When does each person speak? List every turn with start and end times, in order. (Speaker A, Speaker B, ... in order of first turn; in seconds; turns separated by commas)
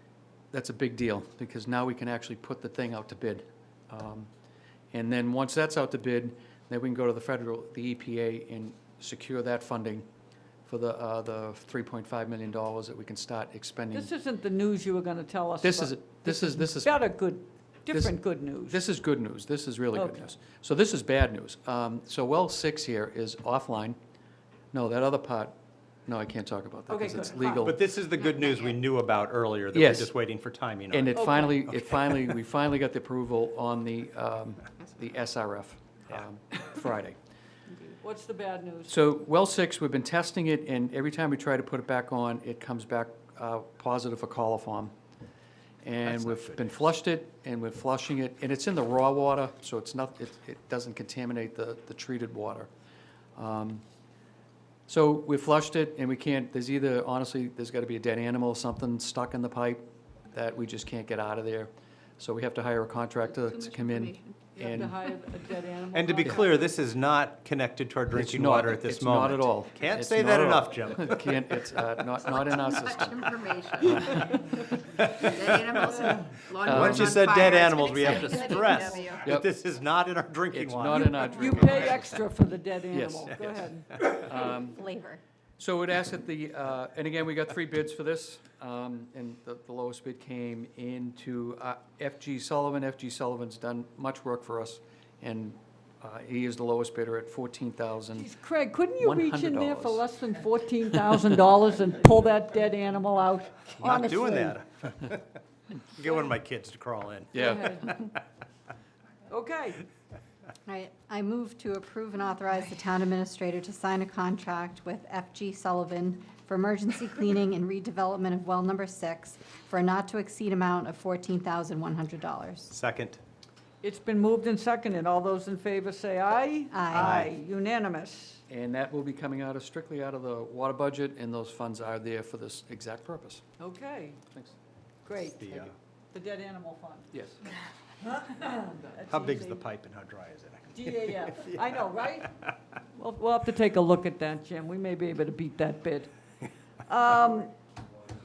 Speaker A: 0.5-4.3, Speaker A: 4.9-10.1, Speaker A: 10.7-14.1, Speaker B: 13.9-18.8, Speaker A: 15.6-17.1, Speaker A: 17.9-24.0, Speaker B: 19.9-20.2, Speaker A: 24.7-25.5, Speaker A: 26.1-27.8, Speaker B: 26.9-27.8, Speaker C: 27.6-32.4, Speaker A: 29.7-30.1, Speaker A: 30.9-37.2, Speaker B: 31.1-31.6, Speaker B: 38.0-39.0, Speaker A: 38.9-44.9, Speaker A: 45.8-52.7, Speaker C: 46.0-46.6, Speaker A: 53.4-53.8, Speaker A: 54.9-64.9, Speaker D: 63.5-64.4, Speaker B: 64.5-66.7, Speaker C: 65.9-71.3, Speaker A: 68.1-73.3, Speaker D: 72.3-74.3, Speaker A: 73.8-75.2, Speaker D: 75.2-79.2, Speaker A: 76.7-77.2, Speaker C: 76.7-82.0, Speaker B: 78.0-79.0, Speaker A: 80.5-82.0, Speaker B: 80.8-83.9, Speaker A: 82.9-83.3, Speaker A: 84.1-84.8, Speaker E: 84.3-85.2, Speaker A: 85.6-98.3, Speaker B: 98.1-104.6, Speaker A: 99.0-100.0, Speaker C: 103.8-105.2, Speaker C: 106.0-107.3, Speaker B: 107.3-108.1, Speaker A: 107.3-107.7, Speaker B: 109.3-109.8, Speaker E: 110.7-122.7, Speaker C: 122.7-123.2, Speaker B: 123.8-128.4, Speaker E: 126.7-127.2, Speaker C: 126.9-127.3, Speaker A: 128.5-133.4, Speaker B: 133.6-134.2, Speaker A: 134.3-134.6, Speaker B: 135.0-137.2, Speaker C: 135.4-135.7, Speaker A: 137.1-137.4, Speaker B: 138.0-139.6, Speaker C: 139.1-141.8, Speaker B: 140.7-142.3, Speaker B: 142.9-146.1, Speaker B: 146.8-147.5